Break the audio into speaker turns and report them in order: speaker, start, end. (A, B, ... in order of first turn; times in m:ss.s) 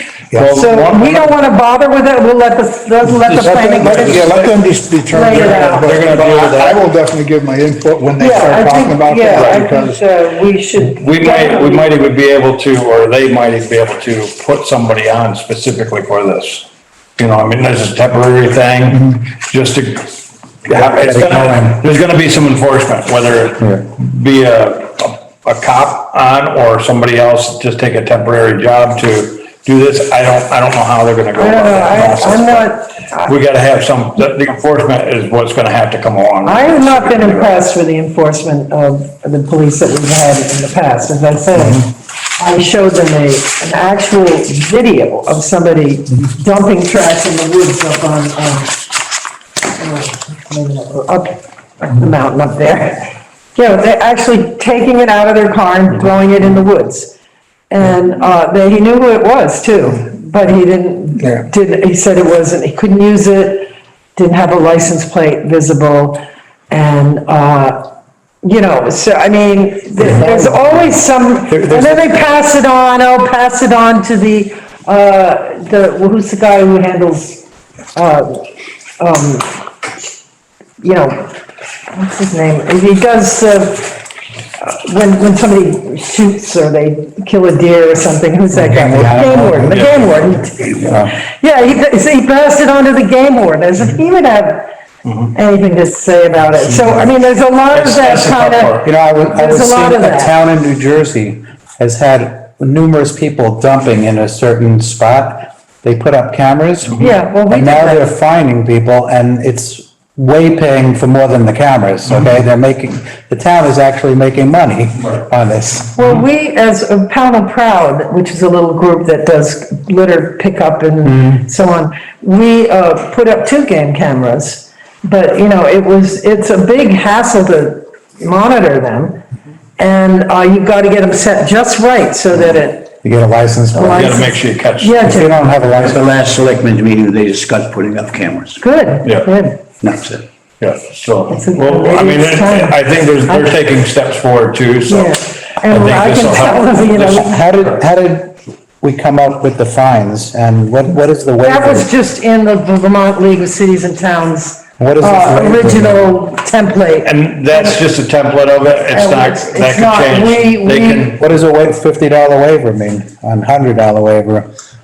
0:00.3-0:00.6 A
0:00.3-0:01.4 B
0:00.5-0:04.4 C
0:03.3-0:04.6 B
0:03.3-0:10.0 A
0:05.1-0:06.1 C
0:05.3-0:06.8 B
0:08.2-0:11.9 C
0:09.3-0:09.6 B
0:10.9-0:16.7 B
0:17.2-0:32.7 B
0:20.7-0:21.8 D
0:23.6-0:23.8 D
0:31.4-0:33.4 C
0:33.2-0:37.6 B
0:36.4-0:48.8 C
0:49.8-0:57.1 C
0:57.7-1:07.9 C
1:08.4-1:17.4 C
1:10.0-1:10.9 D
1:11.5-1:12.2 D
1:17.9-1:18.5 C
1:19.0-1:19.6 C
1:20.8-1:21.3 C
1:21.9-1:24.0 C
1:24.6-1:34.7 C
1:28.5-1:30.2 D
1:29.7-1:30.0 B
1:30.8-1:31.2 D
1:35.3-1:40.3 C
1:37.7-1:38.9 B
1:38.8-1:56.0 D
1:47.0-1:48.1 C
1:56.0-2:09.2 C
2:01.0-2:01.4 D
2:09.8-2:12.9 C
2:13.0-2:14.1 D
2:13.7-2:15.4 C
2:13.9-2:15.3 B
2:15.0-2:16.0 D
2:15.7-2:18.6 E
2:18.6-2:19.6 C
2:19.8-2:20.2 E
2:20.6-2:27.8 B
2:21.3-2:23.6 C
2:24.9-2:27.4 C
2:27.1-2:31.9 D
2:31.4-2:37.8 C
2:34.8-2:36.2 D
2:37.0-2:41.2 B
2:38.9-2:41.1 C
2:41.2-2:44.5 D